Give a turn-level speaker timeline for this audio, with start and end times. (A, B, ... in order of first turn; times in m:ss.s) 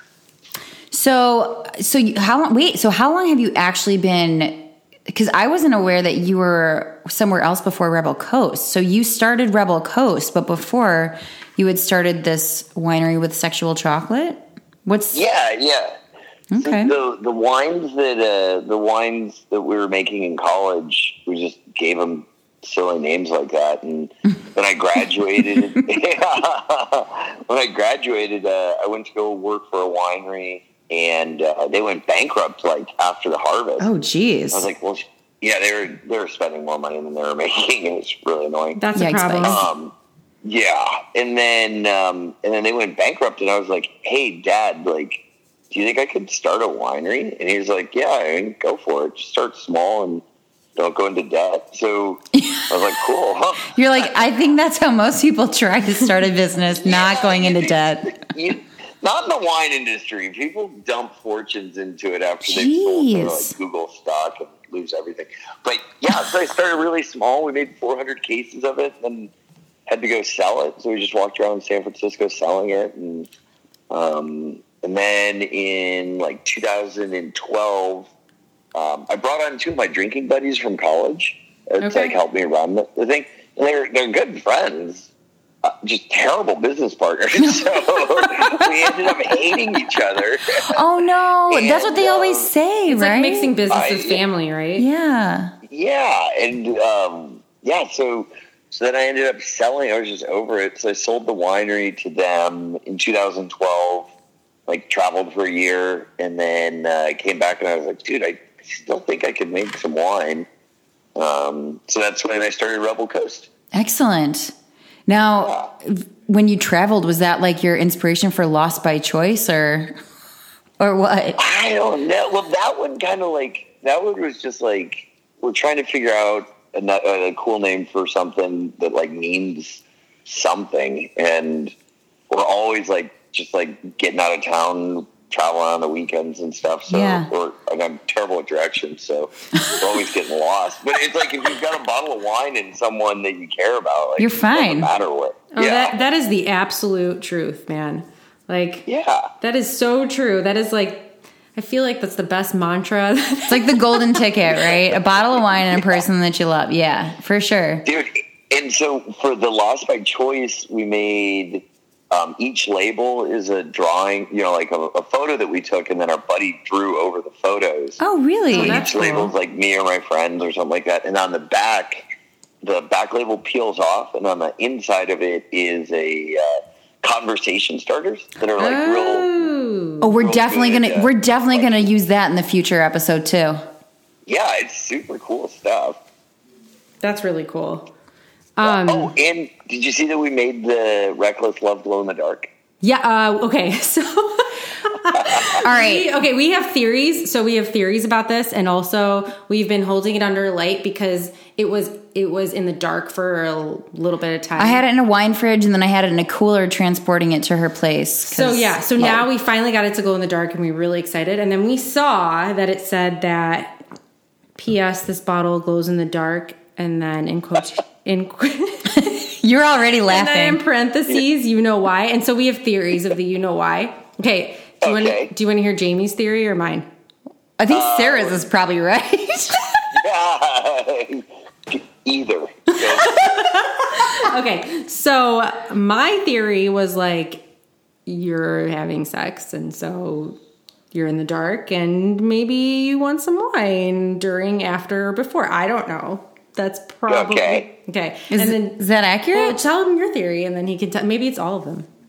0:00.9-0:15.2 A
0:15.1-0:16.0 B
0:16.5-0:16.9 A
0:16.6-0:33.9 B
0:33.8-0:34.7 A
0:34.5-0:38.8 B
0:38.8-0:39.6 C
0:39.0-0:39.6 A
0:39.4-0:39.9 B
0:40.4-0:50.2 B
0:50.8-0:54.1 B
0:52.4-0:52.9 A
0:53.7-0:58.2 A
0:56.8-1:09.3 B
1:02.4-1:03.6 A
1:09.9-1:13.3 B
1:13.9-1:18.1 B
1:18.7-1:25.1 B
1:21.8-1:22.2 C
1:25.6-1:30.8 B
1:27.4-1:29.2 A
1:30.6-1:33.5 A
1:31.5-1:32.5 B
1:32.9-1:34.9 C
1:33.7-1:34.2 B
1:34.8-1:35.6 A
1:35.7-1:44.1 B
1:44.7-1:50.5 B
1:51.2-1:53.5 B
1:53.7-1:54.5 A
1:55.1-2:00.0 A
1:55.4-1:55.7 B
2:00.8-2:01.4 A
2:01.4-2:11.7 B
2:12.3-2:26.0 B
2:16.9-2:17.3 A
2:24.2-2:24.9 A
2:25.5-2:28.8 C
2:28.9-2:29.3 B
2:29.4-2:34.3 C
2:33.5-2:37.9 A
2:34.5-2:36.0 B
2:37.9-2:52.1 B
2:48.0-2:48.9 A
2:48.5-2:49.3 C
2:52.6-2:59.5 B
2:58.6-3:00.1 C
3:00.0-3:03.6 A
3:00.2-3:01.8 B
3:04.3-3:06.0 B
3:07.0-3:07.9 C
3:08.6-3:09.1 C
3:08.6-3:12.5 B
3:12.8-3:24.8 C
3:15.5-3:16.1 A
3:24.6-3:29.2 A
3:28.2-3:33.8 C
3:34.6-3:39.1 C
3:38.9-3:40.6 A
3:40.1-3:46.9 C
3:44.8-3:45.3 B
3:47.6-3:49.8 A
3:47.7-3:48.4 B
3:49.9-3:53.4 B
3:53.0-3:57.5 C
3:58.1-4:00.4 C
4:00.9-4:11.9 C
4:07.1-4:07.7 B
4:08.3-4:09.6 A